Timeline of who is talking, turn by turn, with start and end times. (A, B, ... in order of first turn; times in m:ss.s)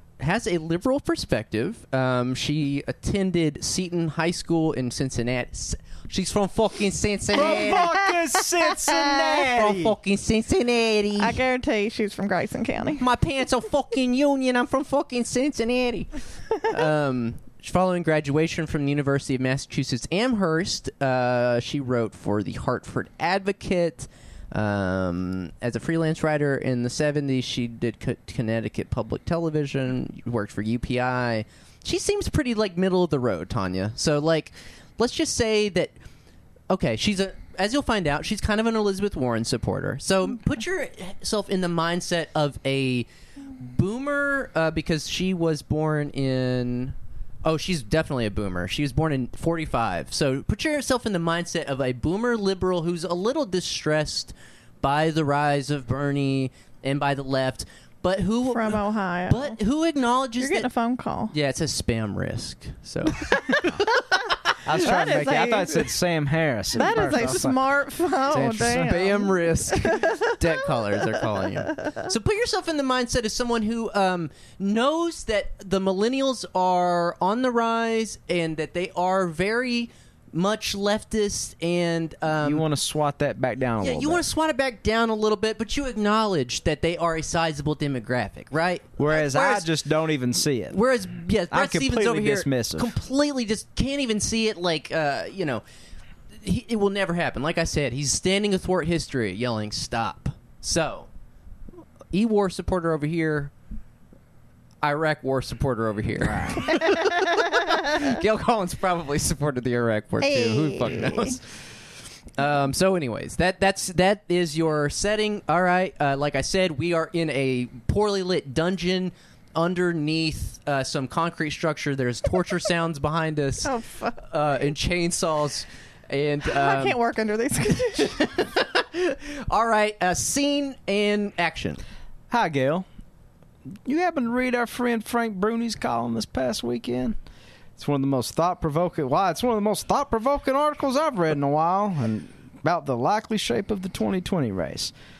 0:00.2-0:08.0 A
0:07.3-0:09.9 B
0:07.4-0:08.2 C
0:08.7-0:09.1 C
0:09.2-0:11.4 A
0:11.2-0:13.0 C
0:13.0-0:35.9 A
0:36.7-1:00.7 A
0:58.5-0:59.6 C
1:00.4-1:01.3 C
1:01.3-1:03.7 A
1:03.3-1:05.9 C
1:04.6-1:07.6 B
1:06.7-1:11.2 C
1:08.3-1:09.0 B
1:08.8-1:22.6 A
1:22.4-1:24.2 B
1:23.8-1:29.7 A
1:29.0-1:30.8 B
1:30.7-1:35.6 A
1:31.5-1:32.9 B
1:36.4-1:41.1 A
1:42.1-1:43.5 A
1:44.8-1:51.8 A
1:46.2-1:46.8 B
1:50.2-1:51.4 C
1:52.3-2:03.7 A
2:03.6-2:04.2 C
2:04.2-2:07.0 A
2:06.4-2:08.3 C
2:07.9-2:11.8 A
2:12.3-2:12.8 B
2:13.8-2:17.2 B
2:17.8-2:24.9 B